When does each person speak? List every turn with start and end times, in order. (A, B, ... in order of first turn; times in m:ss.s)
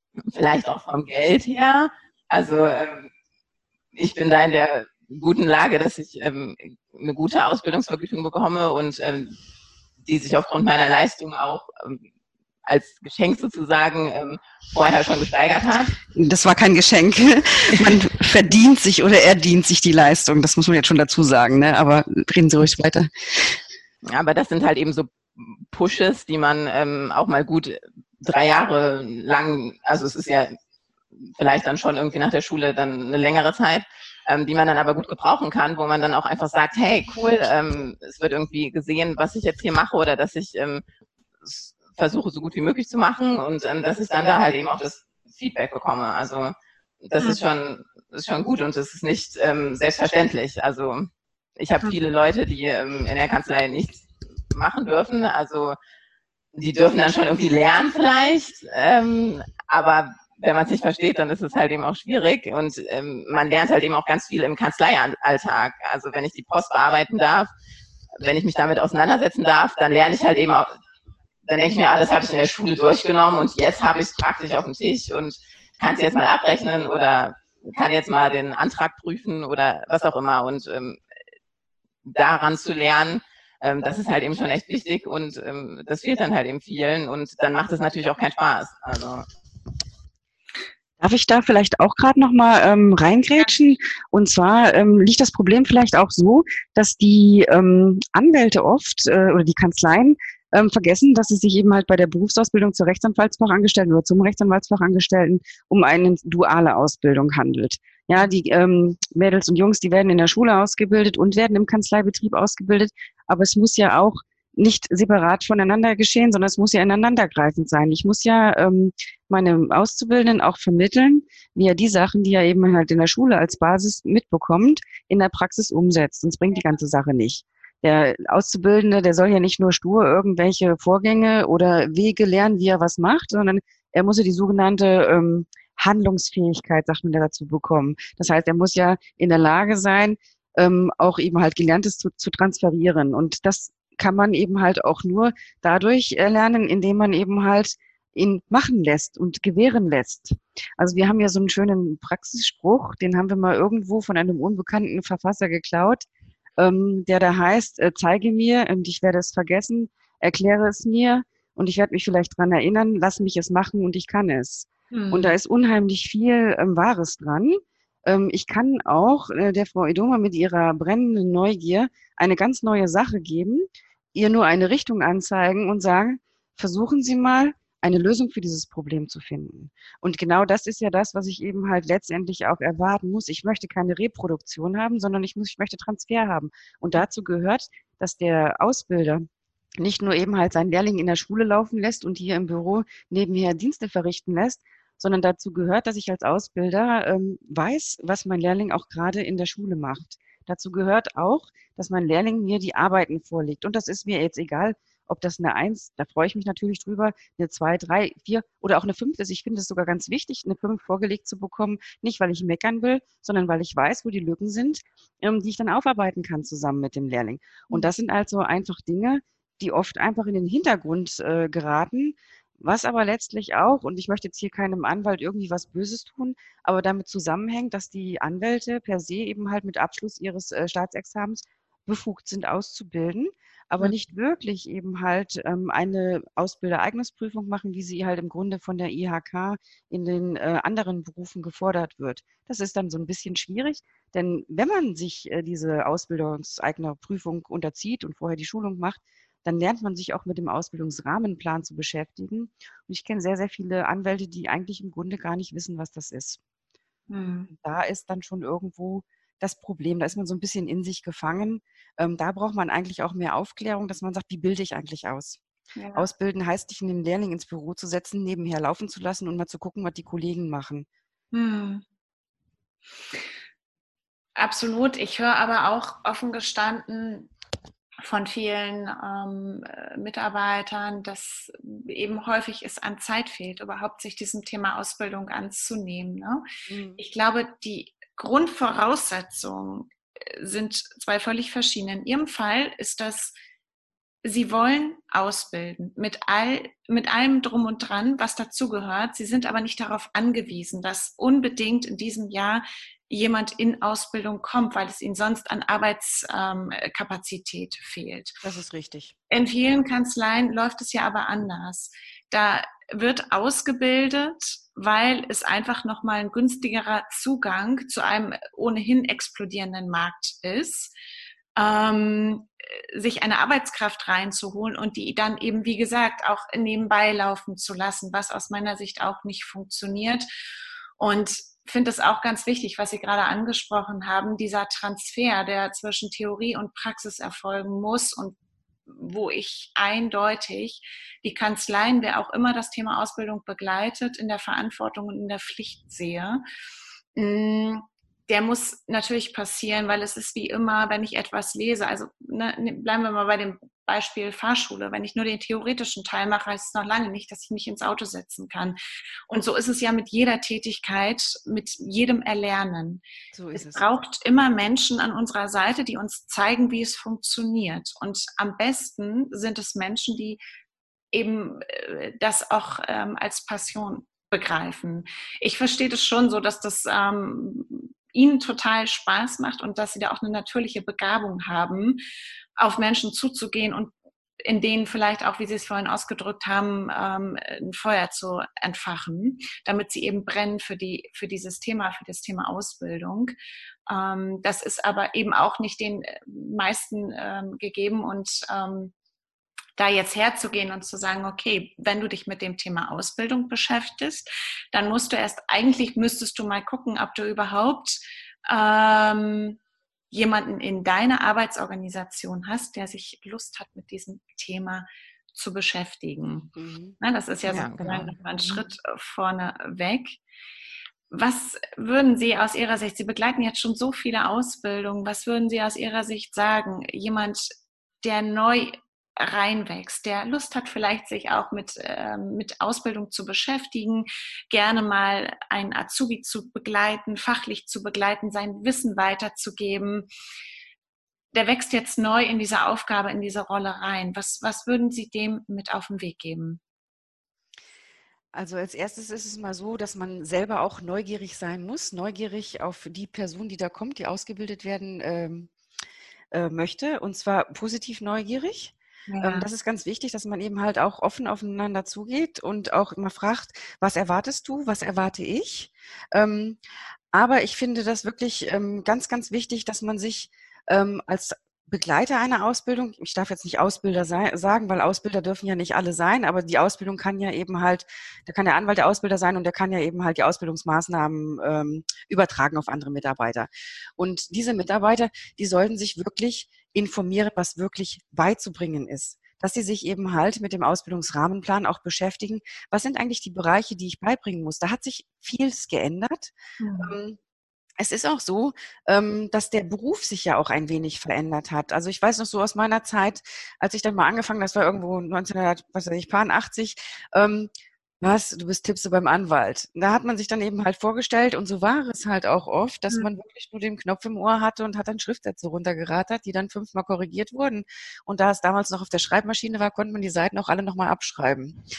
0:00.3-0:03.1 A
0:04.0-0:09.3 A
0:10.0-0:12.0 A
0:12.6-0:16.0 A
0:16.1-0:23.6 B
0:24.0-0:30.5 A
0:31.4-0:40.8 A
0:41.4-0:55.8 A
0:56.5-1:07.5 A
1:08.2-1:10.7 A
1:11.4-1:21.0 A
1:22.0-1:29.2 A
1:31.0-2:36.0 B
2:36.6-3:09.2 B
2:44.9-2:45.4 C
3:09.8-4:16.4 B
4:17.1-4:17.5 C
4:17.5-4:25.4 B
4:25.8-4:26.1 C
4:25.9-4:30.9 B
4:31.3-4:31.8 C
4:34.4-4:37.3 C
4:38.0-4:46.4 C
4:46.7-4:47.0 B
4:47.0-4:53.3 C
4:54.2-5:08.4 C
5:08.4-5:09.1 B
5:09.3-5:20.9 C
5:21.6-5:30.3 C
5:31.0-5:38.3 C
5:38.9-5:46.4 C
5:47.1-5:58.8 C
5:59.3-6:10.4 C
6:03.3-6:03.8 B
6:11.1-6:22.0 C
6:22.6-6:33.3 C
6:33.9-6:38.9 C
6:39.8-6:49.6 C
6:50.1-7:00.2 C
6:56.6-6:57.0 B
6:57.5-6:58.2 A
7:01.1-7:20.1 C
7:21.3-7:26.6 C
7:28.3-7:35.5 B
7:36.3-7:46.6 B
7:39.1-7:39.5 C
7:47.1-8:17.2 B
8:16.6-8:16.9 C
8:17.8-8:27.5 B
8:28.0-8:41.6 B